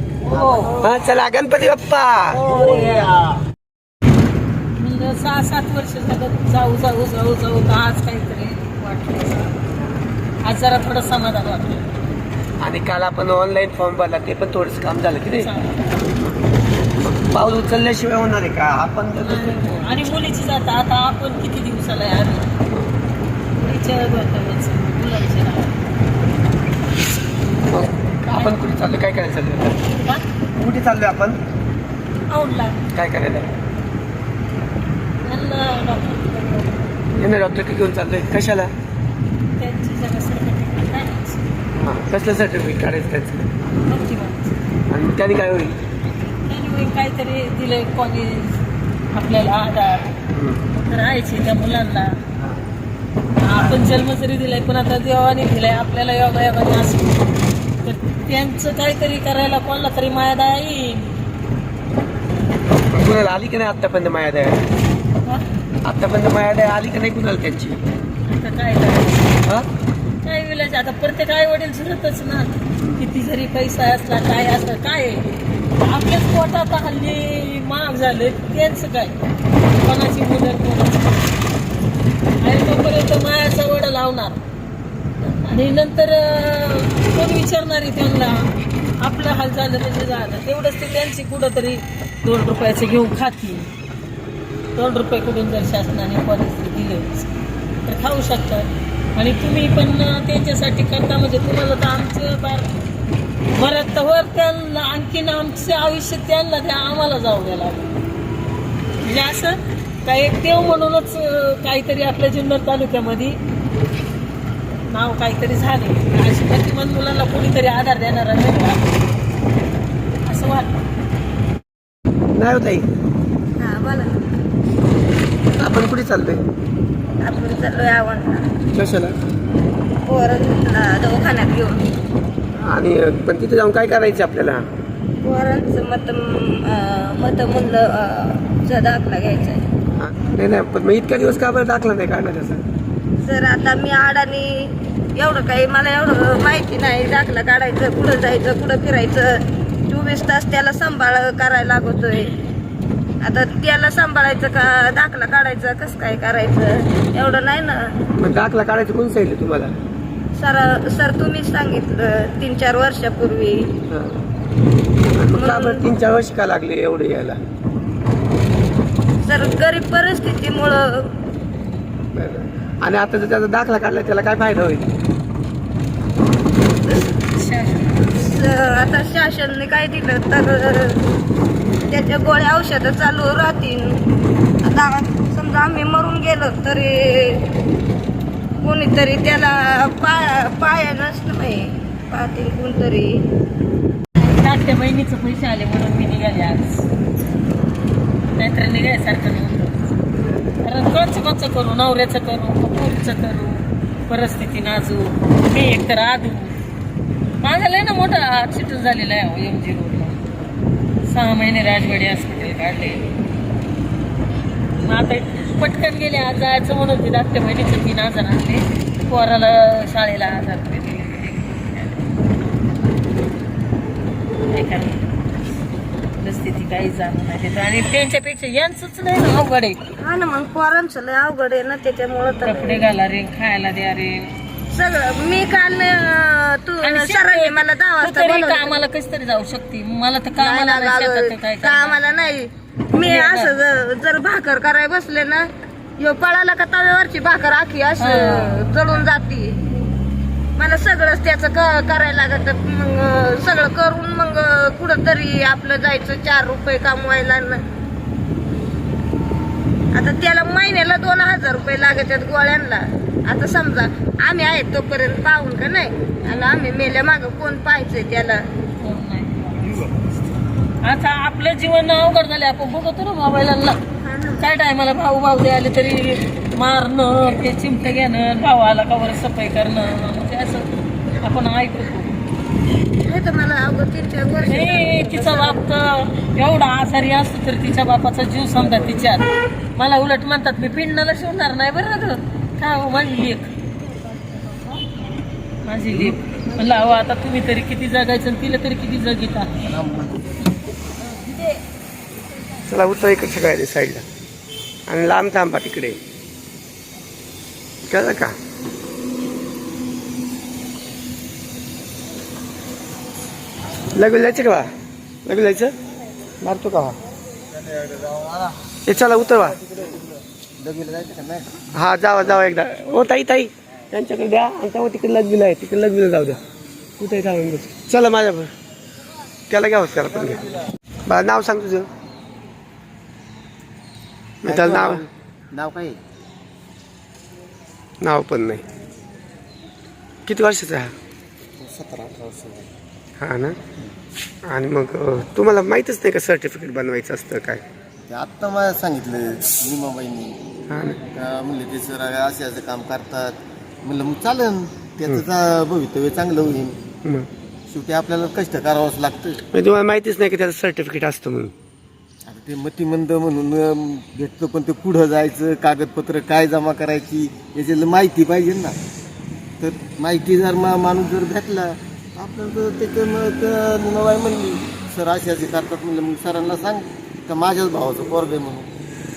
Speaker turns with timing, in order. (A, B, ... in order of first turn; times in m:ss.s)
0:00.3-0:00.8 A
0:00.6-0:02.5 B
0:02.5-0:03.1 A
0:04.8-0:09.6 A
0:10.4-0:11.9 A
0:12.6-0:15.5 B
0:15.3-0:16.2 A
0:17.0-0:19.9 B
0:19.2-0:22.5 A
0:22.7-0:22.9 B
0:23.5-0:25.9 A
0:27.7-0:29.8 B
0:28.3-0:28.6 A
0:30.6-0:31.4 B
0:32.3-0:32.8 A
0:32.9-0:33.5 B
0:35.2-0:36.9 A
0:37.1-0:38.7 B
0:39.6-0:41.5 A
0:41.7-0:43.5 B
0:43.8-0:44.6 A
0:44.9-0:45.8 B
0:46.5-0:48.6 A
0:49.1-0:50.1 A
0:50.3-0:50.6 B
0:50.8-0:52.2 A
0:53.4-0:57.3 A
0:57.8-1:01.1 A
1:02.9-1:04.7 B
1:05.8-1:07.8 B
1:08.2-1:09.4 A
1:10.2-1:15.2 A
1:15.8-1:19.2 A
1:19.8-1:21.3 A
1:22.4-1:24.4 A
1:25.2-1:28.4 A
1:29.0-1:33.7 A
1:34.7-1:37.3 A
1:37.8-1:42.8 A
1:43.5-1:47.9 A
1:49.0-1:53.4 A
1:54.9-1:58.8 A
2:00.2-2:00.8 A
2:02.3-2:02.9 B
2:03.6-2:04.1 C
2:05.6-2:06.4 B
2:07.2-2:08.5 C
2:08.7-2:09.1 B
2:10.0-2:11.8 C
2:12.6-2:14.6 B
2:15.2-2:19.6 C
2:20.0-2:22.6 B
2:23.2-2:32.3 C
2:33.2-2:37.9 C
2:38.2-2:39.7 B
2:40.3-2:43.7 C
2:43.9-2:44.2 B
2:45.1-2:47.4 B
2:45.3-2:45.9 C
2:49.2-2:51.1 C
2:52.1-2:54.8 B
2:57.2-2:58.1 A
2:58.2-3:01.0 C
3:01.9-3:04.0 C
3:04.6-3:07.5 C
3:08.6-3:13.2 C
3:14.2-3:16.8 A
3:18.4-3:19.9 A
3:20.6-3:26.5 A
3:27.4-3:30.2 A
3:31.0-3:33.1 A
3:34.8-3:42.1 A
3:44.5-3:45.1 A
3:46.2-3:49.8 A
3:50.0-3:52.8 C
3:52.4-3:54.3 A
3:54.7-3:58.8 C
3:56.8-4:02.0 A
4:00.4-4:09.6 C
4:03.0-4:03.5 A
4:08.0-4:08.6 A
4:10.6-4:17.6 C
4:19.9-4:28.4 C
4:26.2-4:26.6 A
4:28.8-4:29.9 A
4:30.8-4:33.8 A
4:34.0-4:34.4 C
4:34.4-4:40.7 A
4:41.2-4:42.1 A
4:43.0-4:45.6 C
4:44.4-4:53.5 A
4:54.1-4:54.8 C
4:55.6-4:59.6 A
4:59.7-5:00.2 D
5:01.0-5:01.5 C
5:02.6-5:04.0 B
5:04.9-5:06.0 B
5:07.9-5:08.3 B
5:13.9-5:14.7 B
5:15.2-5:15.7 B
5:16.4-5:17.0 B
5:17.5-5:18.6 D
5:18.8-5:19.6 B
5:20.6-5:21.6 D
5:21.7-5:26.4 B
5:27.0-5:28.5 B
5:29.5-5:30.4 B
5:31.0-5:31.9 B
5:34.4-5:35.0 B
5:34.4-5:36.0 D
5:38.0-5:38.6 B
5:40.2-5:40.9 B
5:41.6-5:42.7 D
5:43.2-5:43.6 B
5:44.5-5:47.6 B
5:48.1-5:50.4 D
5:50.7-5:51.0 B
5:51.1-5:56.8 D
5:57.7-5:59.4 D
5:59.5-6:01.5 B
6:02.2-6:08.8 D
6:09.6-6:18.7 D